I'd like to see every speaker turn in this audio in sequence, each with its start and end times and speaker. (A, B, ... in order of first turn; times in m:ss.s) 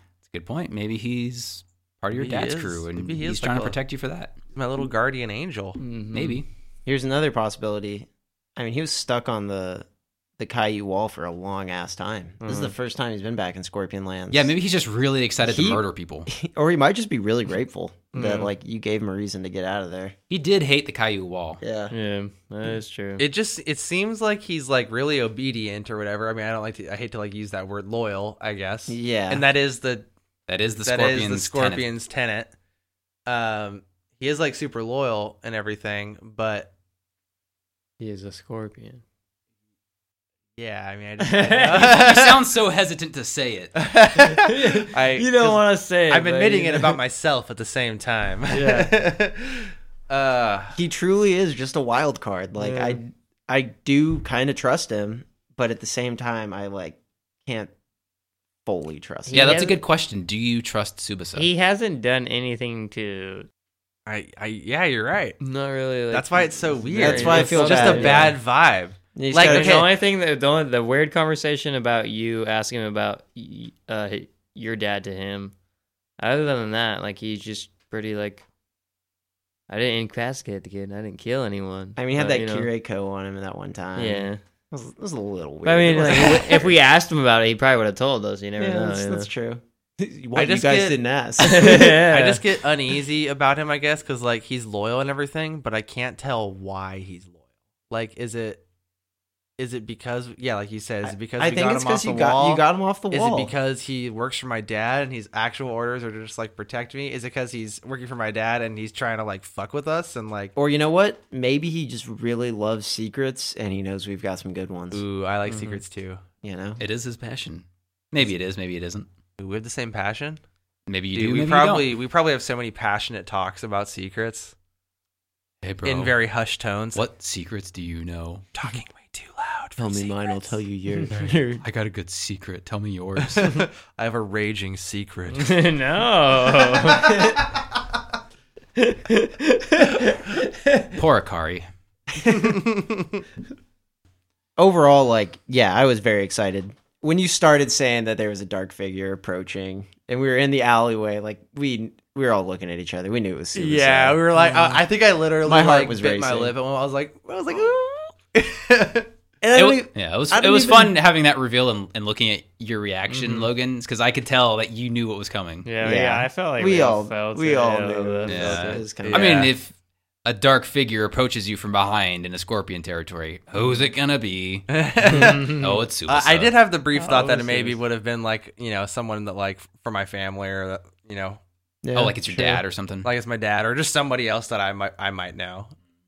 0:00.2-0:04.4 A
0:02.2-0:03.8 B
0:04.5-0:05.8 B
0:05.8-0:06.4 C
0:06.1-0:06.5 A
0:06.9-0:09.9 D
0:10.4-0:14.5 D
0:12.4-0:12.8 C
0:14.3-0:16.3 A
0:15.4-0:20.2 D
0:18.1-0:18.5 C
0:20.3-0:21.6 A
0:21.6-0:21.9 D
0:21.9-0:23.2 C
0:23.2-0:30.1 B
0:28.9-0:29.4 D
0:30.5-0:31.9 A
0:30.8-0:32.5 B
0:33.3-0:36.7 B
0:38.0-0:39.0 C
0:40.6-0:42.4 B
0:41.2-0:42.0 C
0:41.9-0:43.7 A
0:43.8-0:50.8 B
0:44.1-0:47.0 C
0:48.5-0:49.0 C
0:50.8-0:57.7 D
0:52.6-0:53.0 C
0:58.7-0:59.6 D
0:59.3-0:59.8 C
0:59.3-1:01.5 A
1:01.4-1:03.5 C
1:04.1-1:05.4 B
1:05.4-1:08.4 C
1:06.1-1:09.9 B
1:07.0-1:08.4 D
1:09.2-1:09.9 D
1:09.4-1:15.5 C
1:16.2-1:18.4 C
1:19.7-1:22.7 C
1:22.0-1:26.8 D
1:24.0-1:24.4 C
1:25.6-1:29.3 C
1:28.6-1:32.0 D
1:30.4-1:31.0 B
1:31.4-1:32.4 C
1:32.0-1:38.6 B
1:39.6-1:50.5 B
1:41.0-1:43.5 D
1:50.6-1:55.0 D
1:54.9-1:56.2 B
1:55.5-1:55.8 C
1:56.4-1:56.8 D
1:56.8-1:59.1 A
1:59.4-2:00.4 B
2:00.9-2:02.0 A
2:01.1-2:04.5 B
2:05.6-2:06.2 A
2:05.8-2:07.0 B
2:06.9-2:08.5 A
2:08.6-2:10.5 B
2:09.8-2:11.6 D
2:11.6-2:13.5 A
2:13.2-2:15.6 B
2:15.3-2:17.4 C
2:18.8-2:20.8 C
2:20.9-2:21.7 A
2:22.2-2:22.6 D
2:24.6-2:34.2 D
2:33.6-2:39.1 B
2:35.4-2:36.5 D
2:39.4-2:41.0 D
2:39.6-2:45.7 A
2:43.1-2:43.5 C
2:45.6-2:48.9 C
2:45.8-2:49.5 D
2:48.3-2:49.7 A
2:49.0-2:49.6 B
2:50.2-2:56.6 A
2:54.7-3:01.4 B
2:57.0-2:57.8 C
3:01.8-3:02.6 D
3:02.0-3:03.1 A
3:03.0-3:05.7 B